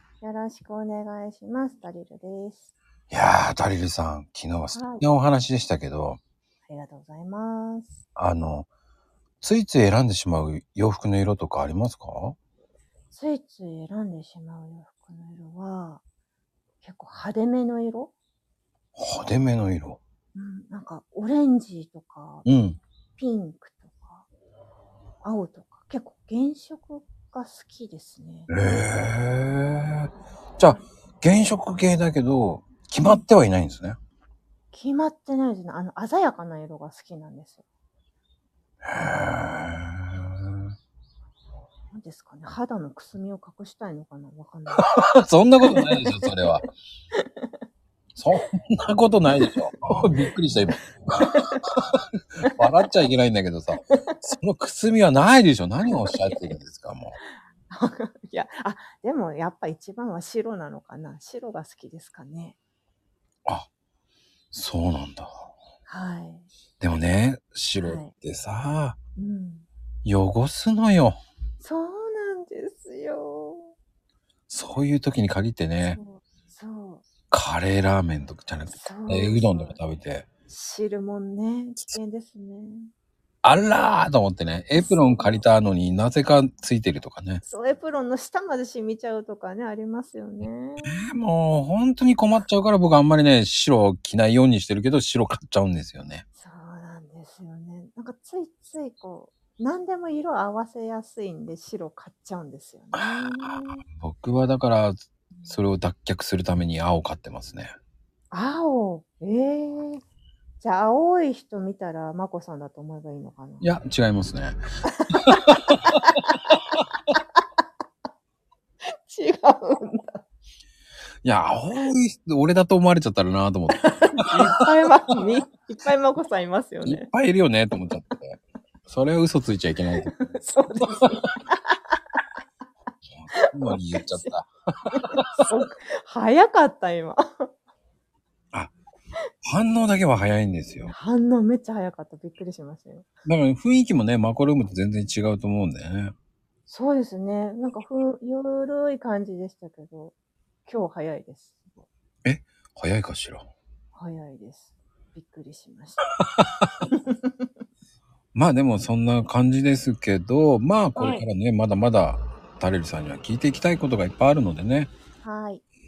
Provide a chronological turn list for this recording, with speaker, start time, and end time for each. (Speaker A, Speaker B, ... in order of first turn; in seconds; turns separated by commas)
Speaker A: 0.2-2.7, Speaker B: 3.1-6.2, Speaker A: 4.7-5.1, Speaker A: 6.7-8.0, Speaker B: 8.2-8.7, Speaker B: 9.4-12.4, Speaker A: 13.1-16.0, Speaker A: 16.8-18.1, Speaker B: 18.9-20.0, Speaker A: 20.4-22.4, Speaker B: 22.4-22.8, Speaker A: 23.2-24.3, Speaker A: 25.2-28.5, Speaker B: 28.5-34.0, Speaker A: 34.7-37.6, Speaker B: 38.8-40.7, Speaker A: 41.9-44.9, Speaker B: 44.8-46.7, Speaker A: 45.7-46.3, Speaker A: 47.1-47.5, Speaker B: 48.1-57.2, Speaker A: 51.2-51.6, Speaker A: 53.9-54.2, Speaker A: 55.9-56.4, Speaker A: 57.7-62.6, Speaker B: 64.5-65.5, Speaker A: 65.9-66.5, Speaker B: 66.8-69.0, Speaker A: 67.8-68.1, Speaker A: 69.2-69.7, Speaker B: 70.0-71.2, Speaker A: 71.6-73.7, Speaker B: 74.5-76.0, Speaker A: 75.9-77.1, Speaker B: 77.3-80.3, Speaker A: 78.7-79.8, Speaker A: 80.5-82.9, Speaker B: 83.4-87.4, Speaker A: 84.8-85.4, Speaker A: 87.4-91.0, Speaker B: 90.8-96.2, Speaker A: 96.4-103.8, Speaker B: 102.9-107.8, Speaker A: 108.3-110.0, Speaker A: 110.6-113.7, Speaker B: 113.6-114.6, Speaker B: 115.1-116.0, Speaker A: 115.3-116.6, Speaker A: 118.9-120.2, Speaker B: 121.2-124.6, Speaker A: 123.7-127.1, Speaker B: 126.8-130.1, Speaker A: 130.1-131.8, Speaker B: 133.1-135.5, Speaker A: 133.3-134.3, Speaker A: 134.9-137.5, Speaker B: 139.4-140.9, Speaker A: 140.9-143.1, Speaker B: 143.3-146.1, Speaker A: 146.7-150.2, Speaker A: 150.7-151.9, Speaker B: 152.2-153.5, Speaker A: 153.9-156.0, Speaker B: 156.4-156.7, Speaker A: 156.9-157.5, Speaker B: 158.3-164.9, Speaker A: 161.0-161.3, Speaker A: 165.2-165.6